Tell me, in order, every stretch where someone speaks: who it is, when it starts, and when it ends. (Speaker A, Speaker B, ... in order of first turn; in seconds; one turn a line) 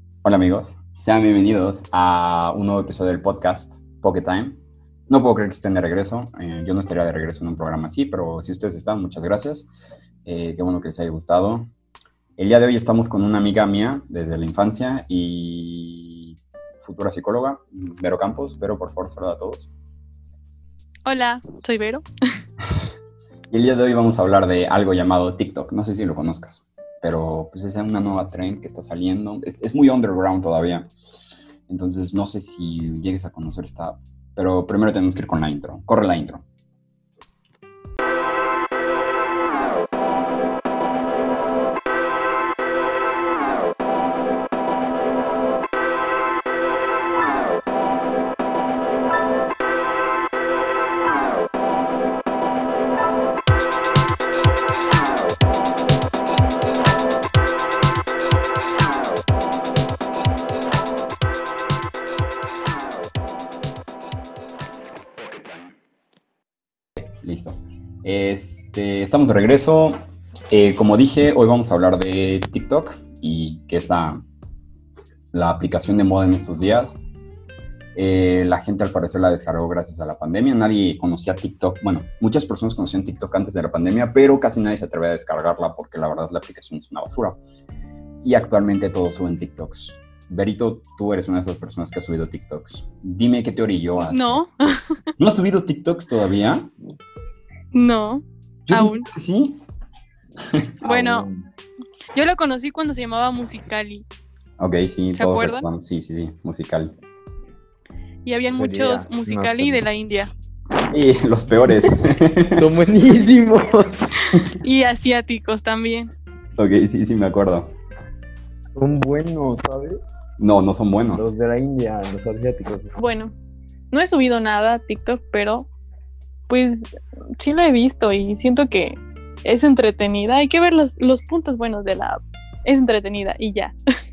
Speaker A: 0.2-9.7
Speaker A: 10.2-11.7
Speaker A: 12.4-19.7
Speaker B: 21.1-22.1
Speaker A: 23.5-30.9
Speaker A: 31.7-36.4
Speaker A: 67.0-70.0
Speaker A: 70.5-74.2
Speaker A: 75.3-77.0
Speaker A: 78.0-87.4
Speaker A: 88.2-94.4
Speaker B: 94.0-95.1
Speaker A: 95.2-96.7
Speaker B: 97.7-99.1
Speaker A: 98.7-99.6
Speaker B: 100.8-101.2
Speaker C: 100.8-101.5
Speaker B: 102.1-104.0
Speaker A: 104.6-107.0
Speaker B: 105.1-105.6
Speaker B: 108.2-110.8
Speaker C: 108.5-109.8
Speaker A: 110.9-112.6
Speaker C: 112.6-114.2
Speaker B: 114.3-116.1
Speaker A: 116.6-117.7
Speaker C: 118.7-120.0
Speaker A: 120.4-121.3
Speaker C: 121.2-123.0
Speaker B: 123.0-123.3
Speaker B: 123.9-125.7
Speaker B: 126.5-126.8
Speaker B: 127.4-133.7